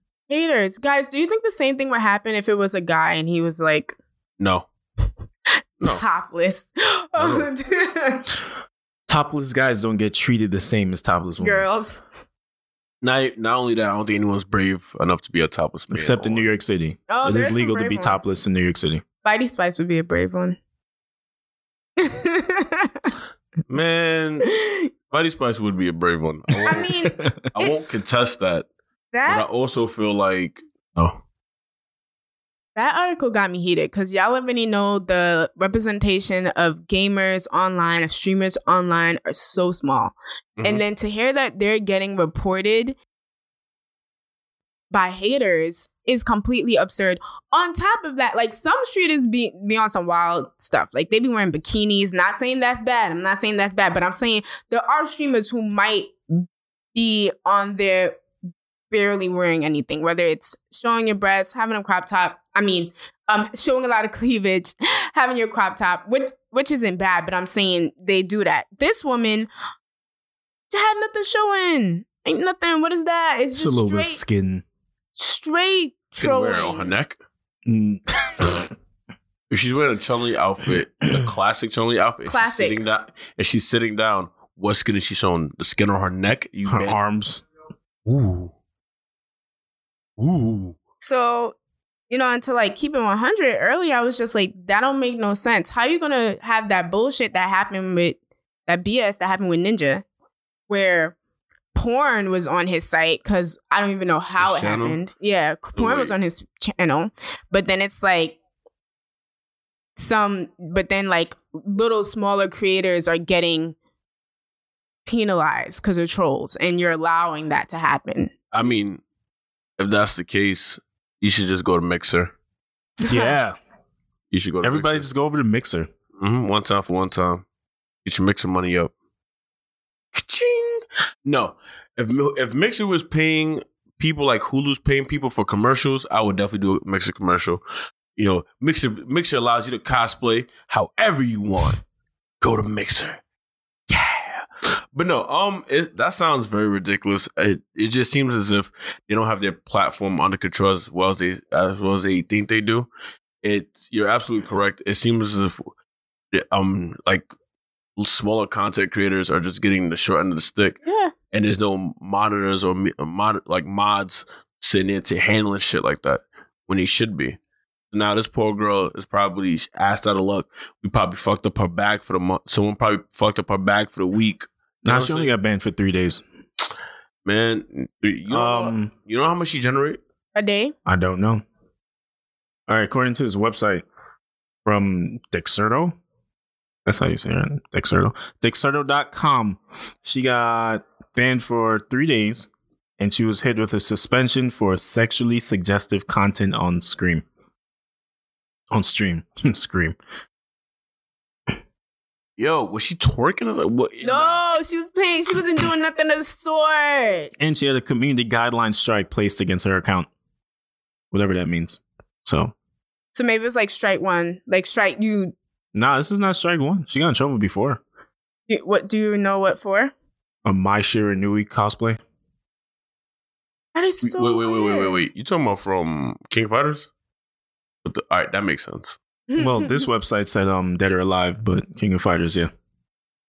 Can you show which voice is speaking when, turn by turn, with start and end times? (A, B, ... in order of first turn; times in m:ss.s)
0:00.3-0:04.0 A
0:04.4-0:04.6 B
0:05.8-0:08.2 A
0:07.2-0:07.5 B
0:09.1-0:11.6 C
0:11.4-0:12.0 A
0:13.0-0:16.5 B
0:15.9-0:19.0 C
0:17.1-0:18.4 A
0:19.2-0:20.6 A
0:22.0-0:23.1 A
0:23.7-0:24.5 B
0:24.5-0:24.9 A
0:25.1-0:26.9 B
0:26.5-0:27.4 C
0:26.6-0:27.7 A
0:27.5-0:28.7 B
0:29.1-0:29.5 A
0:29.2-0:31.2 B
0:32.8-0:43.0 A
0:40.6-0:40.8 B
0:44.9-0:58.2 A
0:58.9-1:09.5 A
1:10.7-1:14.2 A
1:13.6-1:14.6 C
1:15.2-1:16.9 A
1:16.2-1:17.2 B
1:17.6-1:18.7 C
1:19.5-1:27.0 B
1:22.2-1:22.8 A
1:26.6-1:27.4 C
1:28.0-1:28.5 B
1:30.2-1:30.8 B
1:31.0-1:31.5 A
1:32.1-1:40.0 A
1:40.7-1:41.2 A
1:41.7-1:48.4 A
1:44.4-1:45.0 B
1:45.8-1:46.1 B
1:50.0-1:53.8 A
1:55.0-1:58.3 A
1:58.5-1:59.0 B
1:59.8-2:02.3 B
2:03.0-2:03.6 C
2:03.1-2:03.3 A
2:04.3-2:05.1 B
2:04.6-2:05.9 C
2:06.2-2:07.4 B
2:08.0-2:08.9 B
2:10.1-2:17.6 B
2:18.2-2:21.8 B
2:22.4-2:23.2 B
2:23.9-2:32.9 B
2:33.4-2:35.6 B
2:36.3-2:37.3 B
2:38.0-2:40.8 B
2:40.8-2:41.1 A
2:41.3-2:47.4 B
2:47.9-2:55.3 B
2:54.8-2:56.2 C
2:57.2-3:00.0 B
2:58.3-2:58.9 C
3:00.3-3:00.7 A
3:00.8-3:01.4 C
3:02.7-3:03.8 C
3:04.6-3:06.0 C
3:06.8-3:17.2 C
3:18.7-3:20.0 C
3:22.4-3:24.4 B
3:24.0-3:27.3 A
3:27.4-3:30.1 C
3:31.1-3:32.5 C
3:33.1-3:35.3 A
3:35.7-3:37.8 C
3:38.5-3:39.9 A
3:40.4-3:42.0 C
3:43.7-3:45.0 A
3:44.0-3:46.9 B
3:47.8-3:49.0 B
3:49.3-3:49.9 A
3:49.4-3:52.5 C